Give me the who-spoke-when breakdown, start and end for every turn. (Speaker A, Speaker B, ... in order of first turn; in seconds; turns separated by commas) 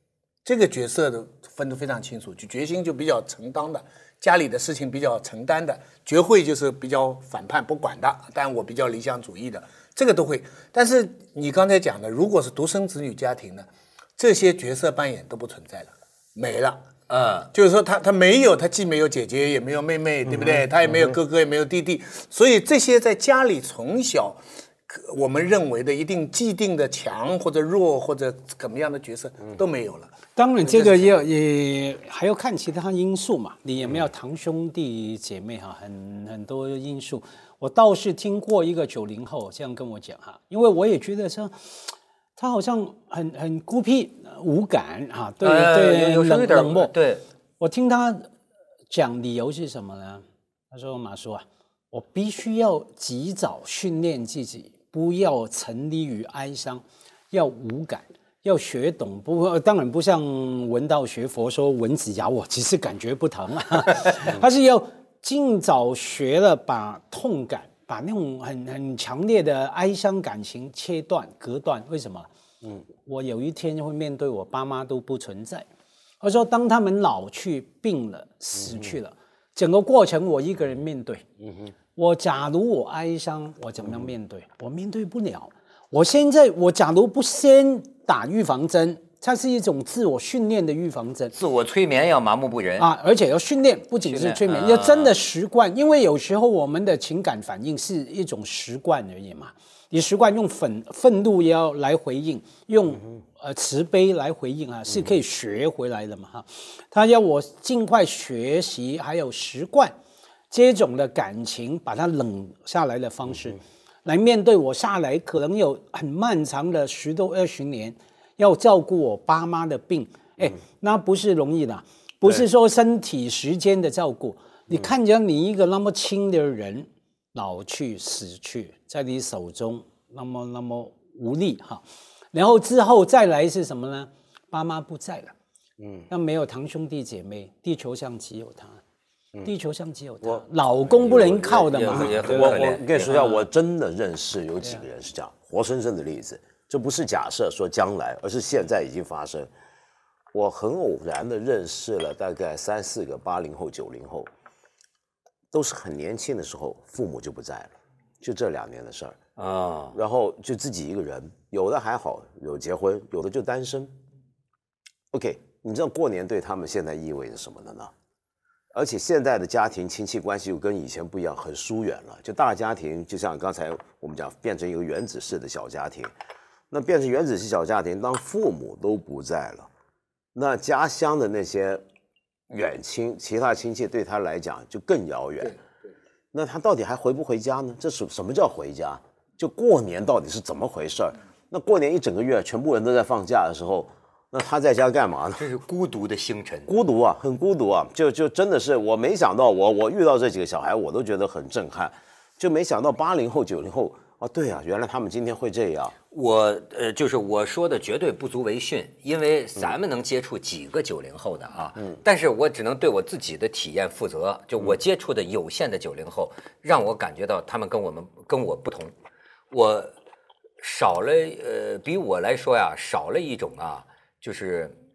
Speaker A: 0.5-16.8, Speaker B: 17.1-17.5, Speaker A: 17.5-31.2, Speaker C: 30.4-46.9, Speaker B: 45.4-47.2, Speaker C: 47.6-48.3, Speaker C: 48.9-72.3, Speaker C: 73.0-75.7, Speaker C: 76.2-81.3, Speaker C: 82.0-91.3, Speaker B: 91.3-92.9, Speaker C: 92.8-110.0, Speaker B: 94.0-95.1, Speaker C: 110.5-135.3, Speaker D: 135.8-136.1, Speaker C: 136.1-138.8, Speaker C: 139.4-143.4, Speaker D: 140.2-149.5, Speaker B: 141.6-143.1, Speaker D: 150.3-154.3, Speaker D: 155.5-159.2, Speaker B: 159.4-160.0, Speaker D: 159.9-163.9, Speaker D: 165.1-167.9, Speaker D: 168.7-176.1, Speaker D: 176.7-179.7, Speaker D: 180.3-181.8, Speaker D: 182.5-185.6, Speaker D: 186.3-195.4, Speaker B: 195.4-196.7, Speaker D: 196.7-205.9, Speaker B: 206.1-218.9, Speaker B: 219.5-219.9, Speaker B: 220.6-224.8